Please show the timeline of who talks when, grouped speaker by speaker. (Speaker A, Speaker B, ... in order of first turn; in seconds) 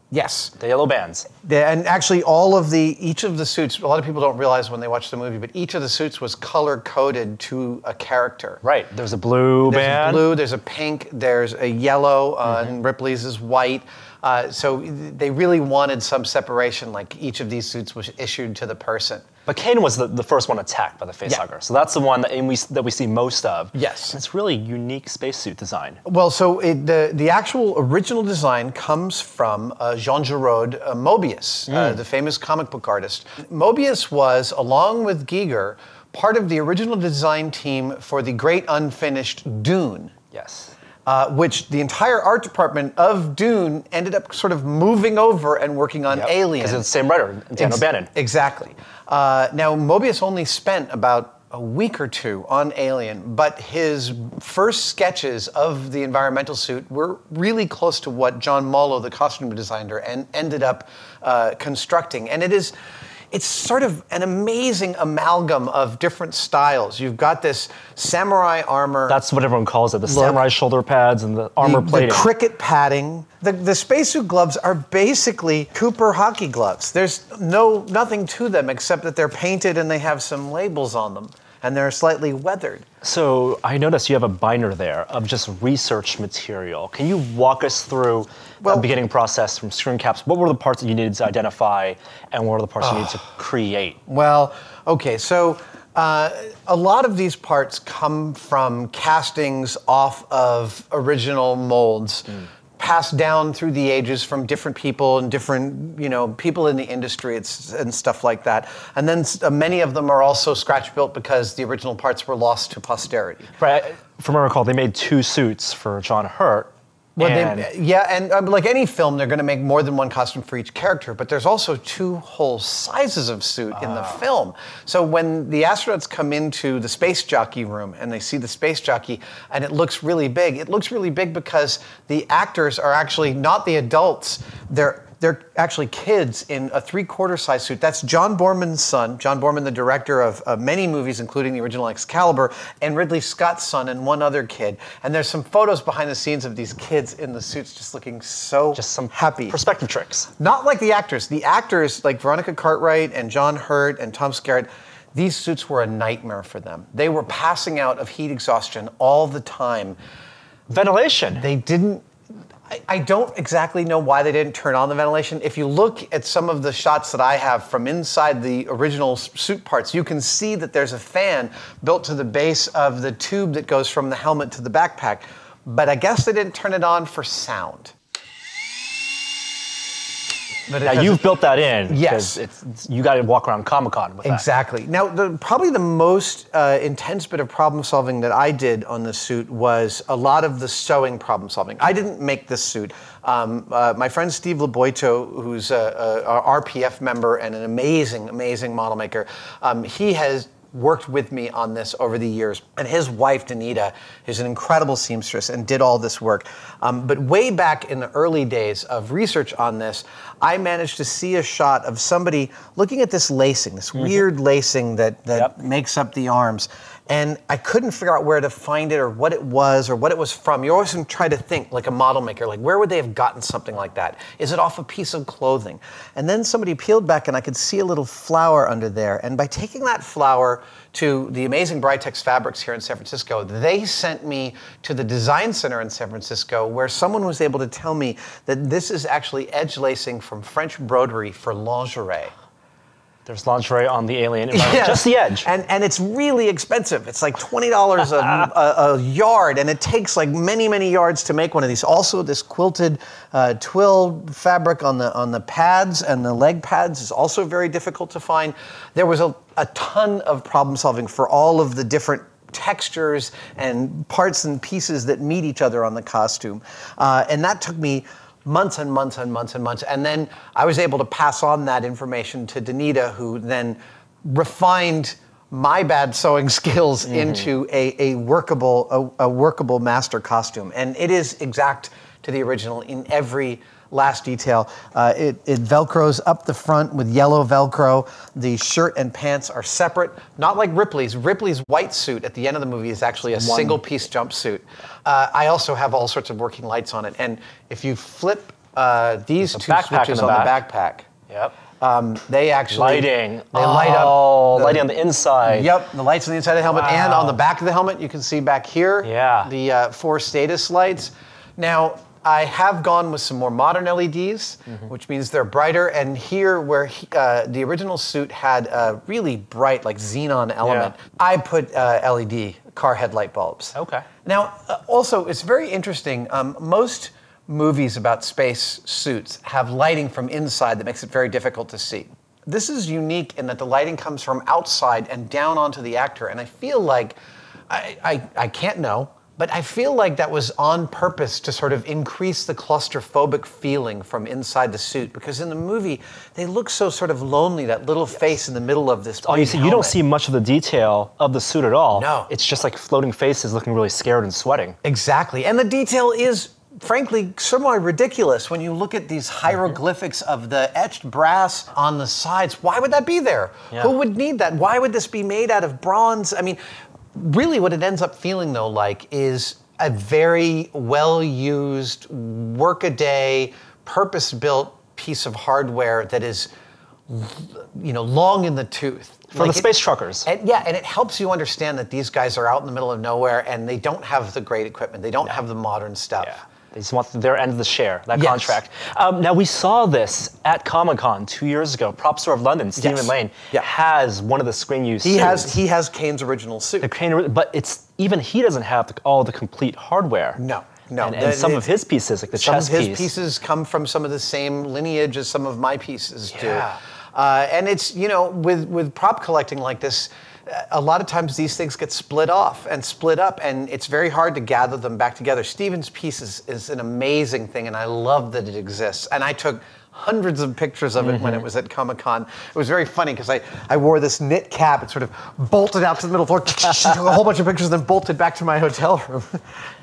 Speaker A: 0.1-0.5, 1.4-8.6, 9.7-19.2, 23.7-24.2, 26.1-40.1, 41.1-46.9, 47.6-62.7, 63.3-69.2, 70.1-70.4, 71.6-82.8, 88.6-88.9, 92.8-93.2, 94.1-113.5, 117.2-149.6, 150.4-160.0, 161.4-162.1, 162.7-177.9, 180.7-181.3, 181.9-182.4, 184.2-242.3, 244.5-301.1, 301.8-304.9, 305.5-337.2, 337.7-350.0, 351.9-352.3, 354.8-366.6, 367.1-376.5, 377.1-386.4, 388.1-388.6, 392.8-393.7, 395.0-396.9, 400.4-401.7, 402.3-429.4
Speaker B: 0.6-1.3, 8.6-10.3, 12.4-12.7, 19.5-26.0, 31.7-32.0, 40.3-40.7, 46.1-48.1, 69.1-72.3, 83.0-94.0, 113.6-117.7, 123.8-124.2, 148.8-150.3, 160.7-161.4, 180.8-184.4, 243.3-245.5, 248.2-248.5, 277.1-277.5, 293.3-293.8, 299.5-300.6, 301.3-301.6, 302.7-305.7, 306.7-307.4, 309.0-309.5, 320.6-320.9, 323.8-324.1, 349.2-354.8, 379.3-380.3, 386.2-395.6, 396.8-400.4, 401.0-403.1, 406.3-406.8, 421.0-421.4